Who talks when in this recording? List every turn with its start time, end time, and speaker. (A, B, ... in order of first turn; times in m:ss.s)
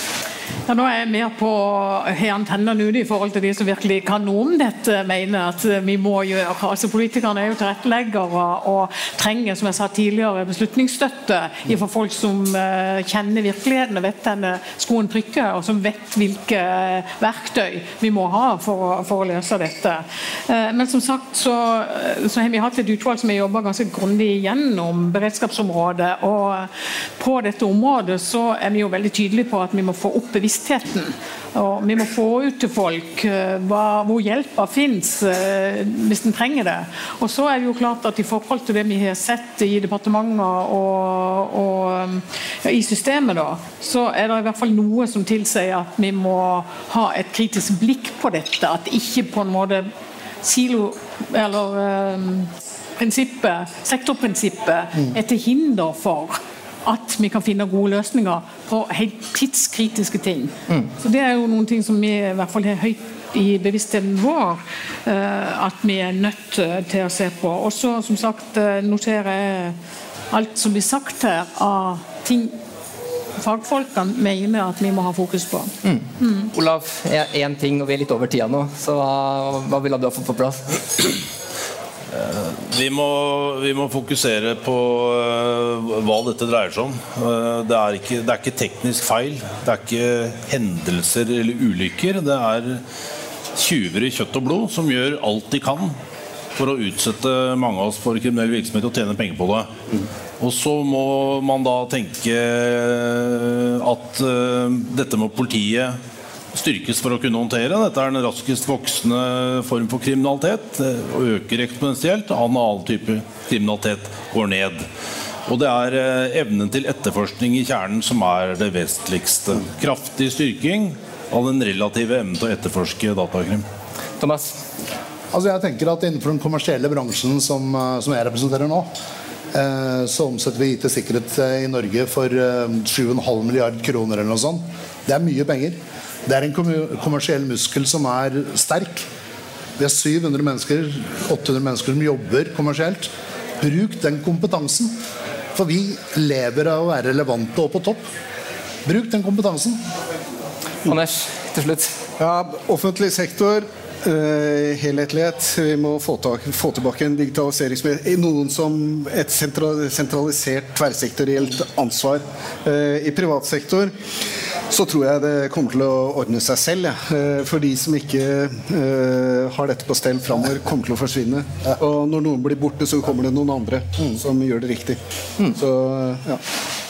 0:00.7-0:49.9 A
0:50.4-1:09.8 A
1:10.3-1:12.6 A
1:13.4-1:16.5 A
1:15.8-1:21.1 B
1:22.1-1:32.8 C
1:33.5-1:36.0 C
1:36.6-1:39.7 C
1:40.4-1:46.0 C
1:46.5-1:54.8 C
1:55.5-2:03.6 C
2:04.2-2:04.6 B
2:05.3-2:08.9 D
2:09.5-2:19.1 D
2:19.8-2:24.9 D
2:25.5-2:28.1 D
2:28.8-2:29.8 D
2:30.8-2:31.9 B
2:32.2-2:43.9 E
2:44.7-2:55.0 E
2:55.5-2:56.4 E